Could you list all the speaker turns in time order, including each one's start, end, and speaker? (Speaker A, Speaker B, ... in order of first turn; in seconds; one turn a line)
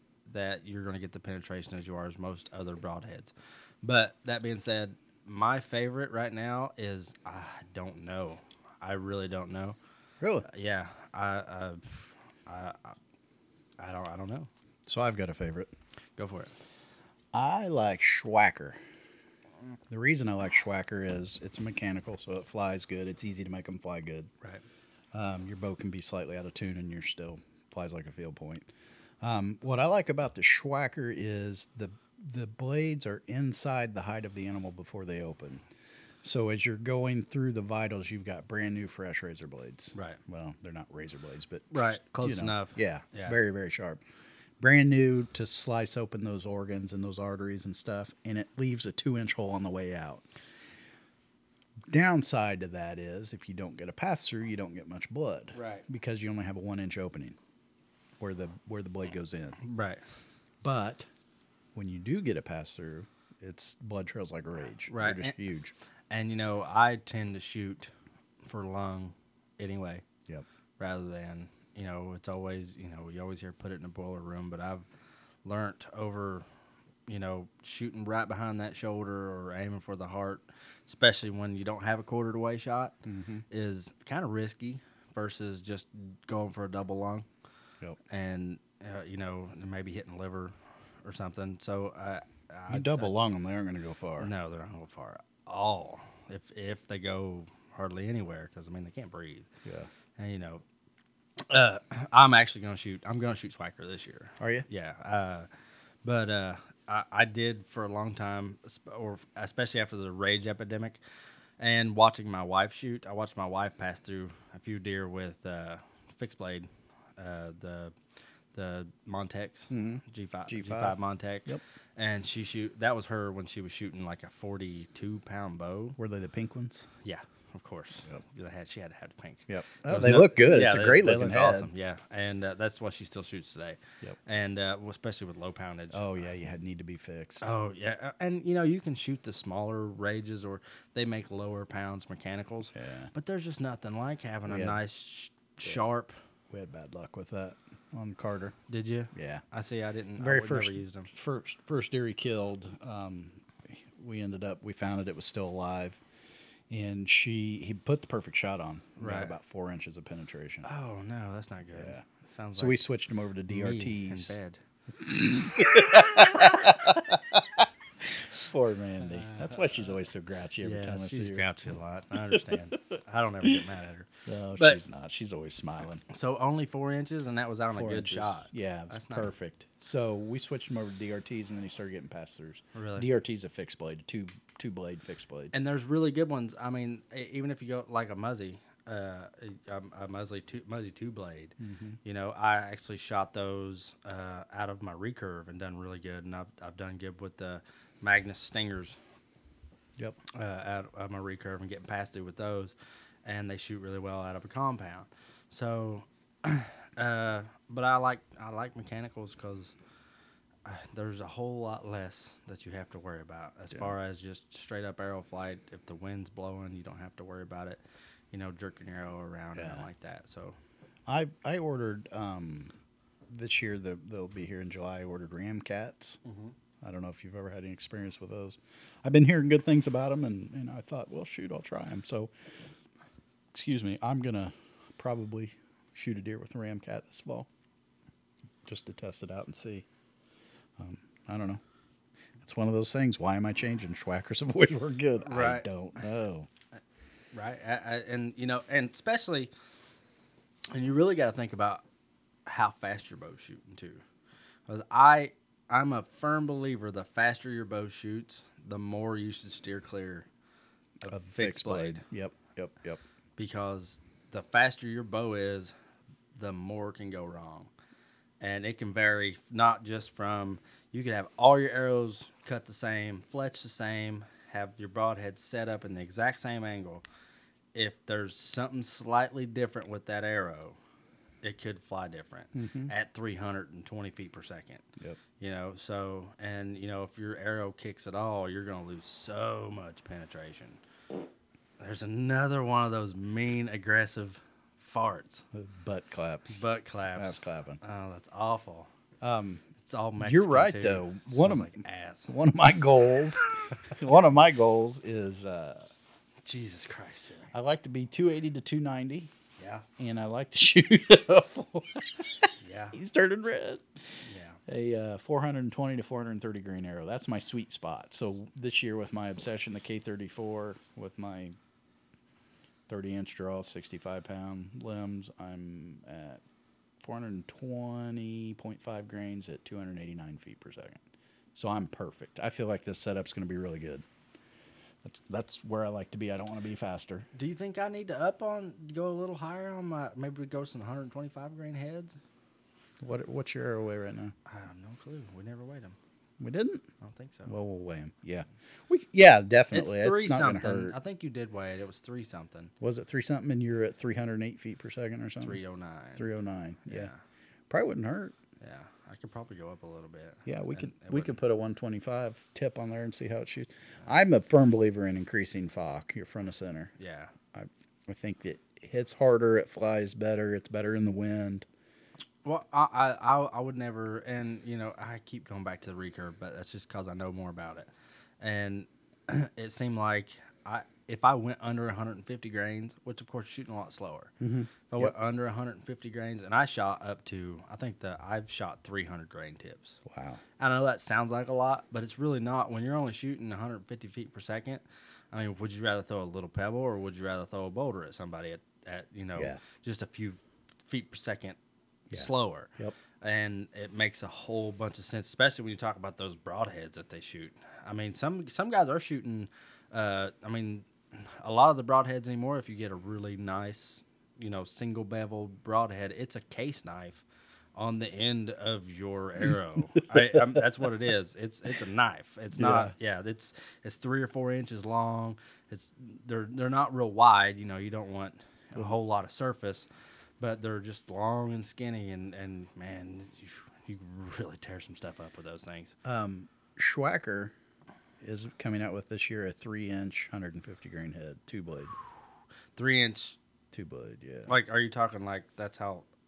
Speaker A: 0.3-9.8
Speaker B: 10.2-10.5
Speaker A: 10.4-11.8
Speaker A: 12.5-13.0
Speaker A: 13.8-14.5
Speaker B: 14.9-15.7
Speaker A: 16.2-16.5
Speaker B: 17.3-18.8
Speaker B: 19.9-24.3
Speaker B: 25.1-28.7
Speaker B: 29.2-35.6
Speaker B: 36.2-44.0
Speaker A: 40.0-40.2
Speaker A: 41.7-43.4
Speaker B: 44.6-50.2
Speaker B: 51.9-57.4
Speaker A: 55.5-55.9
Speaker B: 58.2-59.6
Speaker A: 59.6-60.0
Speaker B: 60.6-61.1
Speaker B: 61.8-65.7
Speaker A: 64.9-65.4
Speaker A: 66.1-67.9
Speaker A: 68.4-70.0
Speaker A: 70.8-74.8
Speaker A: 75.5-76.5
Speaker A: 77.1-83.0
Speaker B: 83.1-83.4
Speaker A: 83.5-87.3
Speaker A: 88.1-93.1
Speaker B: 92.7-94.3
Speaker A: 94.2-99.5
Speaker A: 100.2-100.6
Speaker A: 101.5-105.5
Speaker B: 104.4-104.7
Speaker A: 106.0-111.0
Speaker A: 111.6-117.9
Speaker A: 118.5-126.0
Speaker B: 119.7-121.6
Speaker B: 126.0-126.9
Speaker A: 127.0-136.2
Speaker B: 129.5-131.7
Speaker B: 135.9-137.5
Speaker A: 137.4-146.1
Speaker B: 142.7-143.1
Speaker B: 144.5-144.8
Speaker B: 146.5-148.6
Speaker A: 148.7-151.1
Speaker B: 149.1-149.4
Speaker B: 150.2-156.0
Speaker B: 156.7-160.7
Speaker A: 159.0-159.3
Speaker A: 160.6-162.8
Speaker B: 161.7-162.0
Speaker B: 162.6-164.4
Speaker A: 163.5-164.6
Speaker B: 165.0-171.5
Speaker A: 169.0-170.0
Speaker A: 170.6-174.8
Speaker B: 172.3-172.6
Speaker B: 174.3-176.0
Speaker A: 176.1-179.3
Speaker B: 177.7-185.5
Speaker A: 182.8-183.1
Speaker A: 185.5-199.0
Speaker B: 191.6-192.0
Speaker A: 200.3-202.7
Speaker A: 203.2-209.7
Speaker A: 210.7-217.8
Speaker A: 218.3-220.6
Speaker B: 219.6-219.9
Speaker B: 221.1-222.7
Speaker B: 223.3-226.2
Speaker A: 226.2-226.5
Speaker B: 226.8-232.3
Speaker B: 233.5-237.5
Speaker B: 238.7-239.8
Speaker B: 240.8-241.6
Speaker B: 242.4-246.5
Speaker A: 245.2-245.7
Speaker A: 247.3-249.5
Speaker A: 250.7-251.8
Speaker A: 252.5-254.0
Speaker A: 254.7-260.3
Speaker A: 261.1-262.0
Speaker B: 261.1-263.0
Speaker A: 263.4-265.7
Speaker A: 266.4-267.7
Speaker A: 268.4-277.0
Speaker A: 277.7-280.8
Speaker A: 281.4-284.9
Speaker B: 282.5-282.9
Speaker A: 285.4-290.8
Speaker A: 291.8-295.4
Speaker B: 295.5-297.8
Speaker A: 296.5-298.9
Speaker B: 299.2-299.7
Speaker A: 299.8-302.3
Speaker B: 300.2-305.9
Speaker A: 306.4-307.5
Speaker B: 307.5-309.3
Speaker A: 309.6-309.9
Speaker B: 310.0-312.2
Speaker A: 312.6-313.0
Speaker B: 312.9-313.8
Speaker A: 314.2-314.6
Speaker B: 314.7-321.6
Speaker B: 322.9-326.4
Speaker B: 327.0-331.0
Speaker B: 331.6-334.1
Speaker B: 335.0-337.3
Speaker A: 337.3-342.2
Speaker B: 343.0-344.3
Speaker A: 344.5-346.0
Speaker B: 346.4-346.8
Speaker A: 347.0-347.5
Speaker B: 347.5-351.0
Speaker A: 349.7-352.7
Speaker B: 352.8-355.6
Speaker A: 355.4-356.2
Speaker B: 356.1-357.1
Speaker A: 356.9-357.2
Speaker B: 357.7-358.4
Speaker A: 358.6-361.4
Speaker B: 360.5-366.9
Speaker A: 367.0-367.3
Speaker B: 367.5-371.7
Speaker A: 372.4-377.9
Speaker A: 378.4-384.3
Speaker B: 384.4-385.1
Speaker A: 384.9-390.0
Speaker B: 390.1-390.4
Speaker A: 390.6-401.6
Speaker B: 402.1-403.0
Speaker A: 402.1-417.2
Speaker A: 417.8-429.9
Speaker B: 422.6-422.9
Speaker A: 430.4-435.9
Speaker B: 436.1-437.5
Speaker B: 438.2-441.9
Speaker A: 442.8-443.4
Speaker B: 443.7-444.5
Speaker A: 444.5-446.1